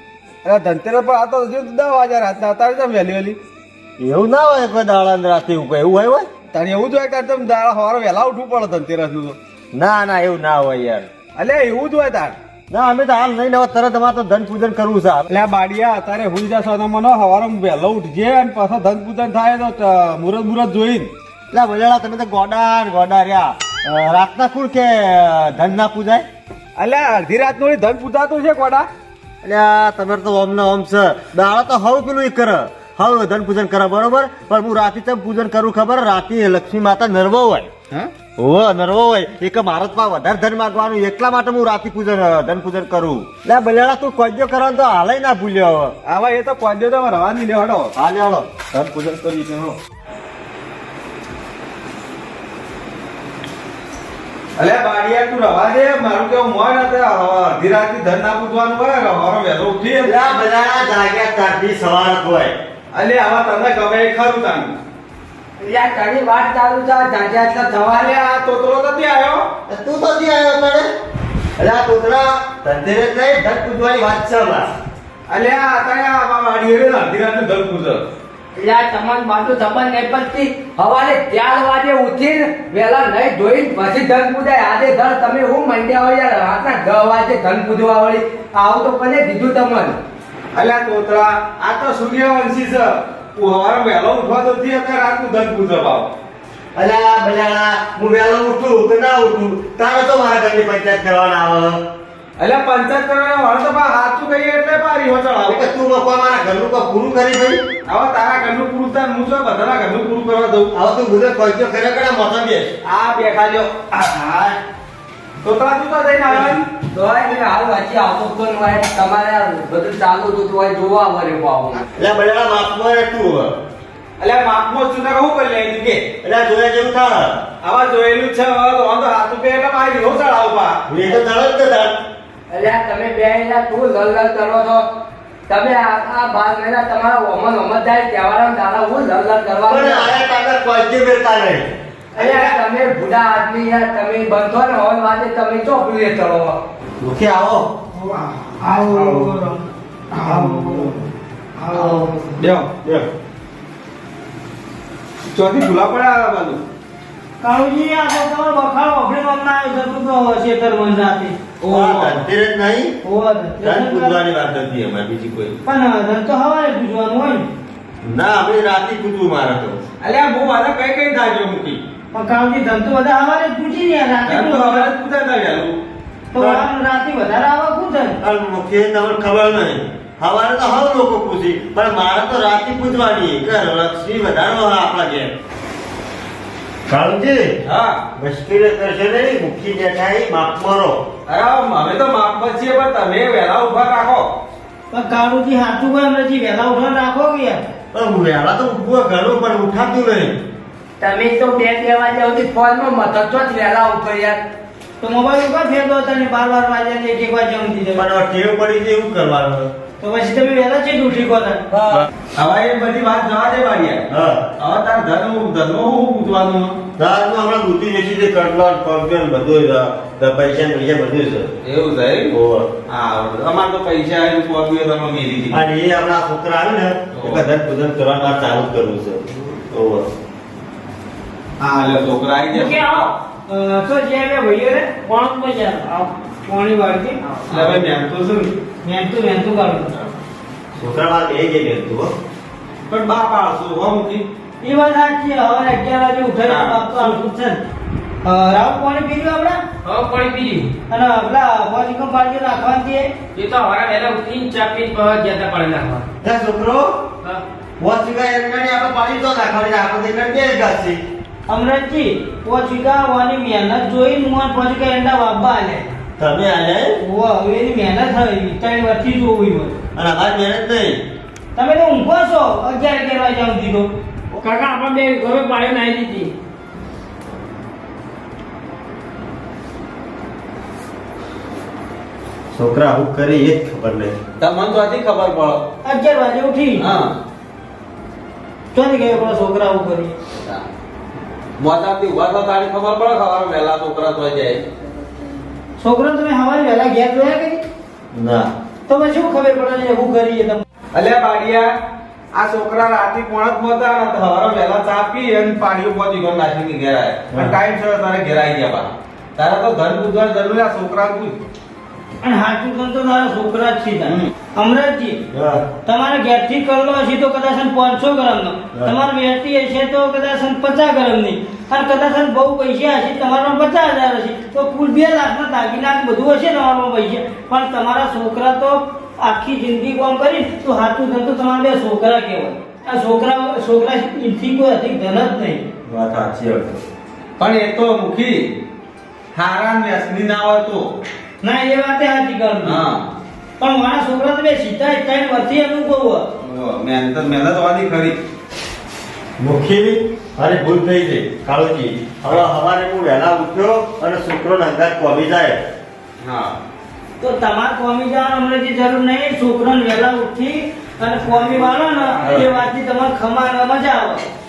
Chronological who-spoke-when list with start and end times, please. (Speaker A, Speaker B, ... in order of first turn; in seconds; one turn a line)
Speaker A: 0.4-3.4
Speaker B: 4.0-6.3
Speaker A: 6.5-9.4
Speaker B: 9.7-11.1
Speaker A: 11.4-12.3
Speaker B: 12.7-15.3
Speaker A: 15.3-21.1
Speaker B: 21.5-26.3
Speaker A: 26.8-28.9
Speaker B: 29.4-37.7
Speaker B: 38.4-45.9
Speaker A: 46.0-47.9
Speaker B: 48.0-49.7
Speaker A: 49.3-49.6
Speaker A: 54.6-60.2
Speaker B: 60.0-62.5
Speaker A: 62.9-64.8
Speaker C: 65.6-68.1
Speaker A: 67.9-69.5
Speaker B: 69.7-70.9
Speaker B: 71.6-74.7
Speaker A: 75.3-78.0
Speaker C: 78.5-90.0
Speaker A: 90.5-96.1
Speaker B: 96.8-101.8
Speaker A: 102.4-105.7
Speaker B: 105.5-107.6
Speaker A: 107.8-110.7
Speaker B: 110.7-112.8
Speaker A: 112.8-114.6
Speaker A: 115.4-116.7
Speaker C: 116.3-121.9
Speaker B: 122.0-123.5
Speaker A: 124.2-126.1
Speaker B: 126.2-127.4
Speaker A: 127.6-130.8
Speaker B: 130.9-132.0
Speaker C: 132.5-134.8
Speaker C: 135.5-140.1
Speaker B: 139.7-141.7
Speaker C: 142.2-146.6
Speaker B: 147.0-147.7
Speaker D: 148.0-149.6
Speaker C: 148.8-149.3
Speaker B: 148.9-149.2
Speaker D: 150.2-150.8
Speaker C: 150.3-150.8
Speaker C: 151.7-152.1
Speaker D: 151.7-152.2
Speaker A: 152.4-152.7
Speaker A: 155.3-156.6
Speaker D: 157.4-161.4
Speaker A: 161.6-162.3
Speaker B: 161.7-162.9
Speaker D: 163.0-164.2
Speaker B: 163.6-165.6
Speaker D: 165.7-167.5
Speaker B: 168.0-169.8
Speaker A: 170.0-171.8
Speaker D: 172.1-174.9
Speaker A: 174.3-175.8
Speaker D: 176.3-178.2
Speaker B: 176.4-176.7
Speaker B: 178.2-185.3
Speaker B: 186.9-187.6
Speaker A: 187.7-188.0
Speaker B: 188.1-191.0
Speaker A: 191.3-194.3
Speaker D: 194.9-197.6
Speaker B: 197.9-200.4
Speaker C: 201.0-204.4
Speaker D: 205.0-208.1
Speaker B: 208.0-209.7
Speaker D: 210.0-211.6
Speaker B: 211.7-212.1
Speaker A: 212.3-214.1
Speaker B: 214.1-214.5
Speaker A: 214.6-216.8
Speaker B: 217.0-221.5
Speaker A: 221.6-222.3
Speaker B: 222.3-222.7
Speaker A: 222.9-225.6
Speaker B: 225.5-230.1
Speaker A: 227.1-227.5
Speaker A: 231.6-233.1
Speaker D: 232.5-237.2
Speaker E: 235.1-236.0
Speaker A: 237.5-238.5
Speaker D: 238.8-240.0
Speaker B: 240.8-242.1
Speaker A: 242.9-244.2
Speaker D: 244.6-247.6
Speaker A: 246.5-247.2
Speaker D: 248.2-249.6
Speaker E: 249.8-250.7
Speaker D: 250.9-253.1
Speaker E: 253.3-256.1
Speaker B: 256.2-257.0
Speaker B: 257.8-261.0
Speaker D: 261.5-265.9
Speaker B: 266.2-267.0
Speaker D: 267.0-269.8
Speaker B: 269.9-271.0
Speaker D: 271.6-273.9
Speaker E: 274.4-276.3
Speaker D: 274.8-276.2
Speaker B: 282.5-284.2
Speaker A: 284.4-285.6
Speaker D: 285.8-286.9
Speaker A: 286.8-287.1
Speaker D: 288.7-290.1
Speaker A: 290.3-290.6
Speaker A: 291.6-294.6
Speaker D: 295.8-297.6
Speaker B: 298.1-298.5
Speaker D: 298.9-300.6
Speaker A: 300.9-301.7
Speaker A: 302.3-311.4
Speaker D: 312.2-315.2
Speaker B: 315.3-315.6
Speaker D: 315.9-335.6
Speaker B: 335.9-336.8
Speaker A: 337.4-338.5
Speaker A: 339.3-340.9
Speaker D: 341.4-342.8
Speaker A: 342.6-343.1
Speaker D: 343.6-346.2
Speaker A: 346.4-348.2
Speaker B: 349.4-355.6
Speaker A: 356.2-356.6
Speaker D: 357.2-364.3
Speaker A: 361.4-362.5